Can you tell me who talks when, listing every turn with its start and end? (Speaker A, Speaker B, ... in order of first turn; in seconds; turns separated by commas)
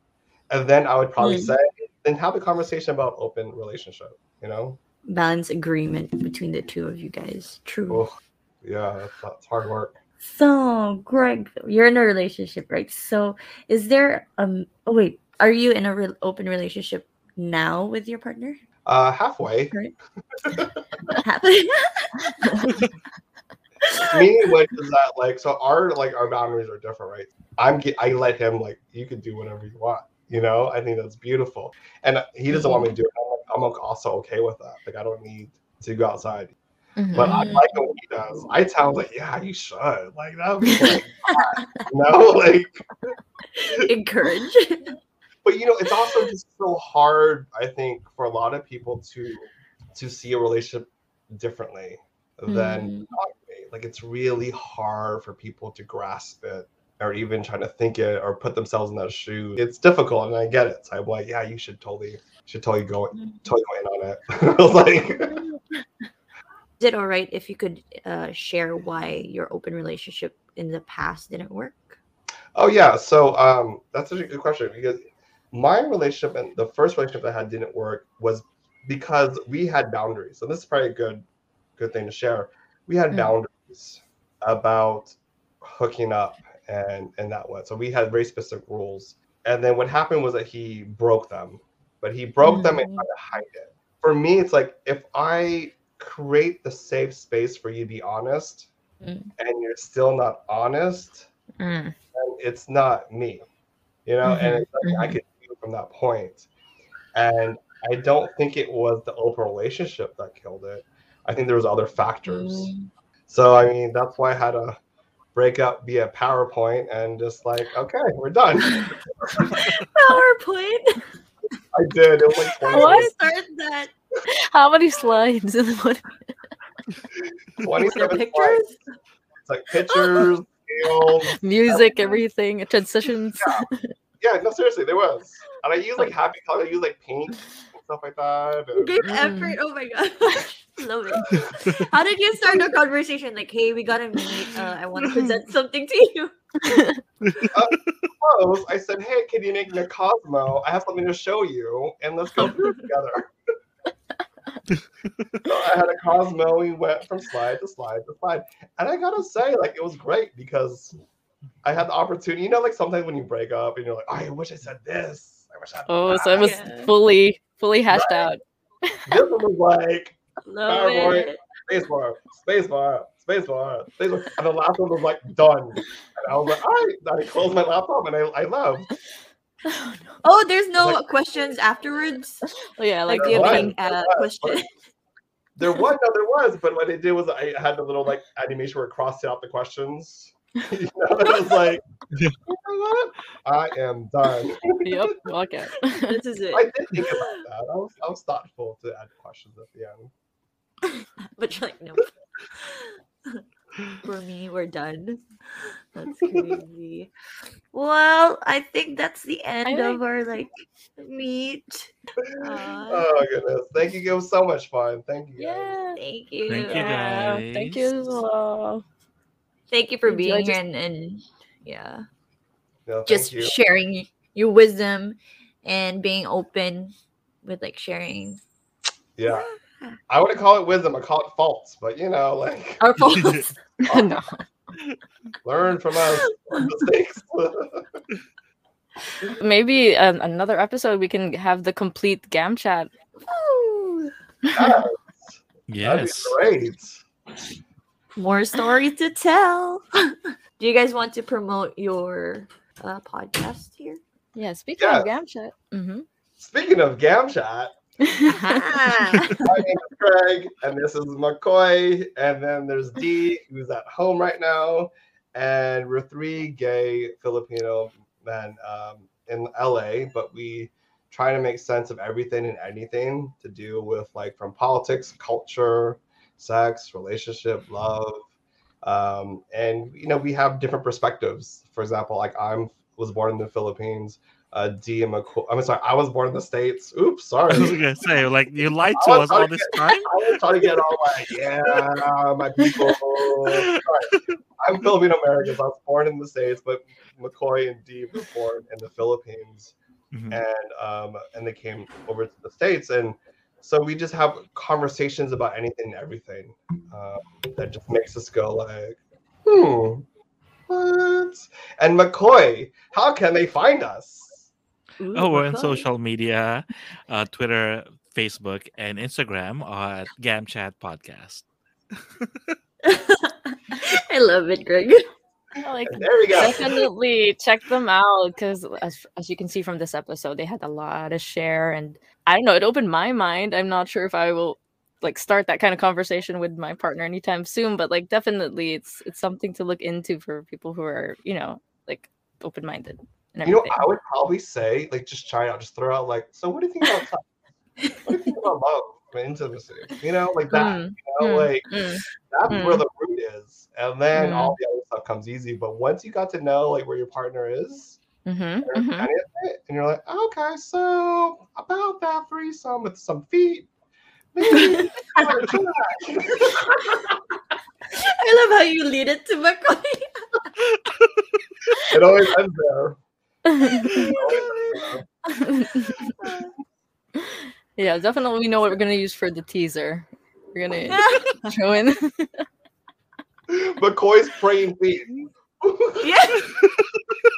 Speaker A: 0.5-4.8, Speaker B: 1.2-1.5, Speaker B: 5.1-8.0, Speaker A: 7.9-10.0, Speaker B: 10.2-18.6, Speaker A: 18.8-19.8, Speaker A: 20.4-20.8, Speaker B: 21.1-22.8, Speaker A: 24.1-36.5, Speaker B: 32.5-32.8, Speaker C: 37.0-37.4, Speaker A: 37.1-42.8, Speaker B: 37.2-37.9, Speaker B: 41.5-41.8, Speaker B: 43.5-44.9, Speaker A: 45.4-65.3, Speaker B: 52.5-53.1, Speaker B: 63.1-63.5, Speaker B: 65.3-65.6, Speaker B: 66.8-72.0, Speaker A: 72.5-81.2, Speaker A: 81.8-98.7, Speaker B: 92.4-93.0, Speaker B: 99.0-99.3, Speaker A: 99.4-101.3, Speaker C: 101.6-101.9, Speaker A: 102.1-103.4, Speaker A: 104.0-106.5, Speaker C: 104.2-104.9, Speaker A: 107.1-112.7, Speaker B: 112.3-112.9, Speaker A: 113.3-114.8, Speaker A: 115.3-119.6, Speaker B: 119.5-121.0, Speaker A: 121.7-123.1, Speaker B: 122.6-123.9, Speaker C: 122.7-123.1, Speaker C: 124.3-126.2, Speaker A: 127.6-128.7, Speaker B: 127.8-128.8, Speaker A: 129.4-131.4, Speaker B: 129.9-130.2, Speaker C: 131.4-133.9, Speaker B: 131.7-132.2, Speaker A: 133.4-133.6, Speaker A: 134.2-138.9, Speaker B: 138.8-146.3, Speaker C: 139.1-139.6, Speaker C: 146.6-147.0, Speaker D: 147.2-147.6, Speaker A: 147.5-153.3, Speaker D: 154.7-155.1, Speaker A: 155.4-160.9, Speaker A: 161.6-166.6, Speaker C: 165.9-169.0, Speaker B: 166.4-166.9, Speaker A: 167.9-168.3, Speaker A: 169.1-178.9, Speaker B: 170.5-171.4, Speaker C: 179.7-180.2, Speaker B: 180.2-182.5, Speaker A: 180.8-181.1, Speaker C: 182.8-183.6, Speaker B: 183.1-184.7, Speaker A: 183.1-184.7, Speaker D: 183.4-183.7, Speaker A: 185.6-191.8, Speaker A: 192.4-195.0, Speaker C: 194.8-196.2, Speaker B: 196.0-197.4, Speaker A: 196.5-200.1, Speaker B: 200.9-203.4, Speaker B: 204.0-205.3, Speaker B: 205.9-207.1, Speaker A: 206.2-206.6, Speaker B: 207.7-213.1, Speaker C: 209.6-210.0, Speaker A: 212.3-215.8, Speaker C: 215.4-216.0, Speaker B: 215.9-216.8, Speaker D: 216.5-217.8, Speaker C: 216.5-218.8, Speaker B: 219.7-222.1, Speaker C: 220.1-220.6, Speaker A: 222.8-223.6, Speaker B: 223.1-228.4, Speaker A: 229.2-229.5, Speaker B: 229.3-230.0, Speaker A: 230.1-232.8, Speaker B: 232.8-233.7, Speaker D: 233.0-233.4, Speaker C: 233.9-234.4, Speaker A: 235.4-238.0, Speaker B: 236.4-236.7, Speaker C: 239.4-242.9, Speaker B: 243.3-244.1, Speaker A: 244.5-247.0, Speaker D: 245.7-246.3, Speaker B: 248.1-254.0, Speaker C: 254.3-256.1, Speaker A: 254.8-255.1, Speaker A: 256.4-257.7, Speaker C: 258.1-258.4, Speaker B: 258.3-259.4, Speaker A: 259.4-278.2, Speaker A: 278.8-287.8, Speaker D: 287.5-290.1, Speaker A: 288.9-299.7, Speaker D: 292.6-294.4, Speaker D: 300.1-300.4, Speaker A: 300.3-310.0, Speaker A: 310.7-314.5, Speaker B: 315.0-315.9, Speaker D: 315.1-321.4, Speaker D: 322.2-322.5, Speaker B: 322.8-325.0, Speaker C: 325.6-343.8, Speaker A: 325.9-326.7, Speaker A: 343.4-347.2, Speaker A: 348.0-351.7, Speaker C: 350.5-352.8, Speaker A: 352.3-358.0, Speaker C: 354.1-354.6, Speaker C: 358.2-359.1, Speaker A: 358.6-363.7, Speaker A: 364.3-367.1, Speaker B: 364.5-364.8, Speaker B: 367.9-370.5, Speaker A: 371.9-373.0, Speaker C: 373.5-374.0, Speaker B: 373.9-374.9, Speaker A: 373.9-375.0, Speaker C: 375.3-376.1, Speaker B: 376.2-376.4, Speaker C: 377.2-382.4, Speaker B: 380.9-381.5, Speaker A: 383.5-386.3, Speaker B: 386.0-386.5, Speaker D: 386.5-386.8